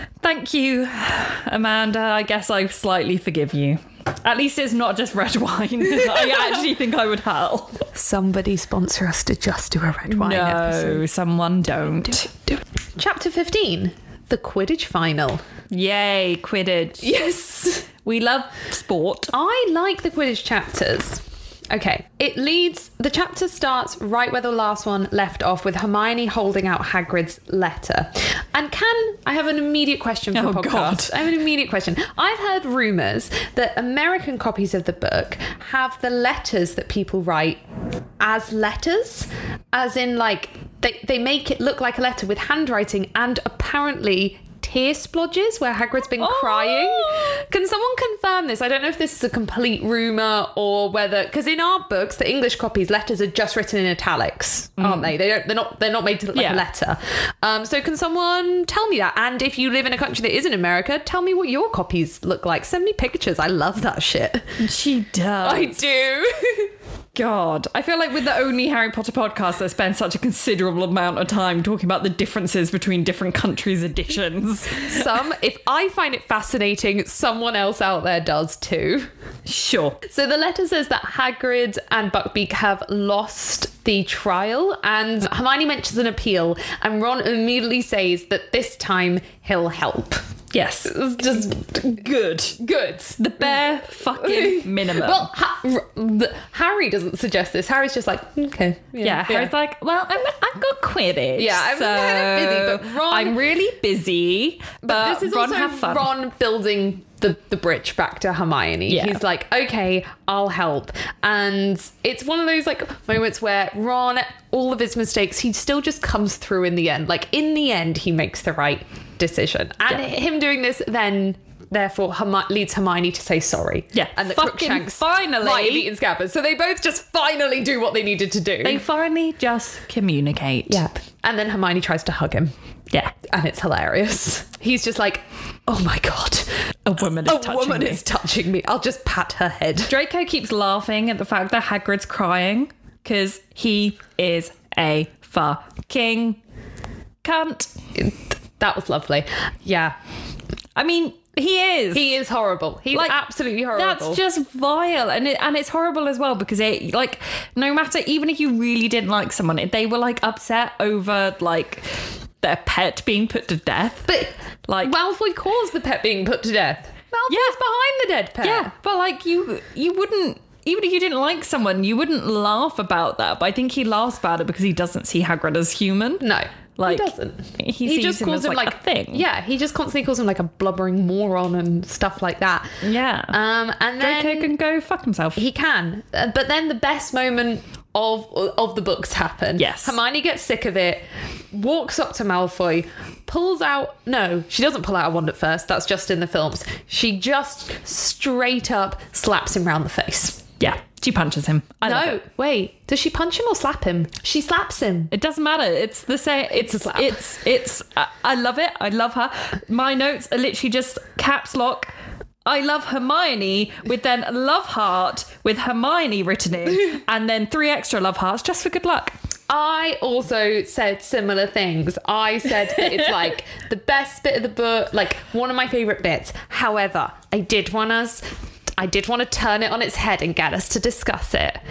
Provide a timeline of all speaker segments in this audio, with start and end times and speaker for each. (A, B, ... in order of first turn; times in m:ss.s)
0:00.2-0:07.8 A
0:07.9-0:11.0 B
0:10.1-0:12.3 A
0:12.5-0:15.4 B
0:15.7-0:17.2 A
0:17.0-0:17.9 B
0:18.0-0:19.3 A
0:19.3-0:37.6 B
0:30.3-0:31.2 A
0:38.2-1:04.6 B
0:46.2-0:47.4 A
0:54.8-0:55.1 A
0:56.3-0:56.6 A
1:04.6-1:05.8 A
1:05.4-1:06.7 B
1:07.2-1:15.2 A
1:14.7-1:19.1 B
1:19.5-1:20.0 A
1:20.0-1:30.2 B
1:30.5-1:32.6 A
1:30.9-1:32.0 B
1:32.6-1:39.5 B
1:33.2-1:35.3 A
1:39.0-1:46.1 A
1:41.4-1:43.4 B
1:44.8-2:08.8 B
1:48.9-1:49.2 A
2:03.9-2:05.9 A
2:08.6-2:10.8 A
2:10.7-2:12.5 B
2:13.2-2:19.9 B
2:16.9-2:18.0 A
2:19.9-2:26.4 A
2:27.2-2:27.7 A
2:28.0-2:30.0 B
2:30.8-2:32.2 A
2:31.9-2:34.2 B
2:32.9-2:33.2 A
2:33.7-2:44.9 A
2:44.8-2:48.7 B
2:47.3-2:47.6 A
2:48.4-2:56.2 A
2:56.2-3:02.8 B
2:56.8-2:59.3 A
3:02.8-3:03.4 A
3:03.3-3:04.5 B
3:04.0-3:05.4 A
3:05.4-3:20.4 B
3:09.6-3:10.0 A
3:20.6-3:22.2 A
3:21.8-3:25.1 B
3:25.1-3:31.9 A
3:26.5-3:27.2 B
3:32.5-3:39.1 A
3:39.5-3:48.2 B
3:48.8-3:51.6 B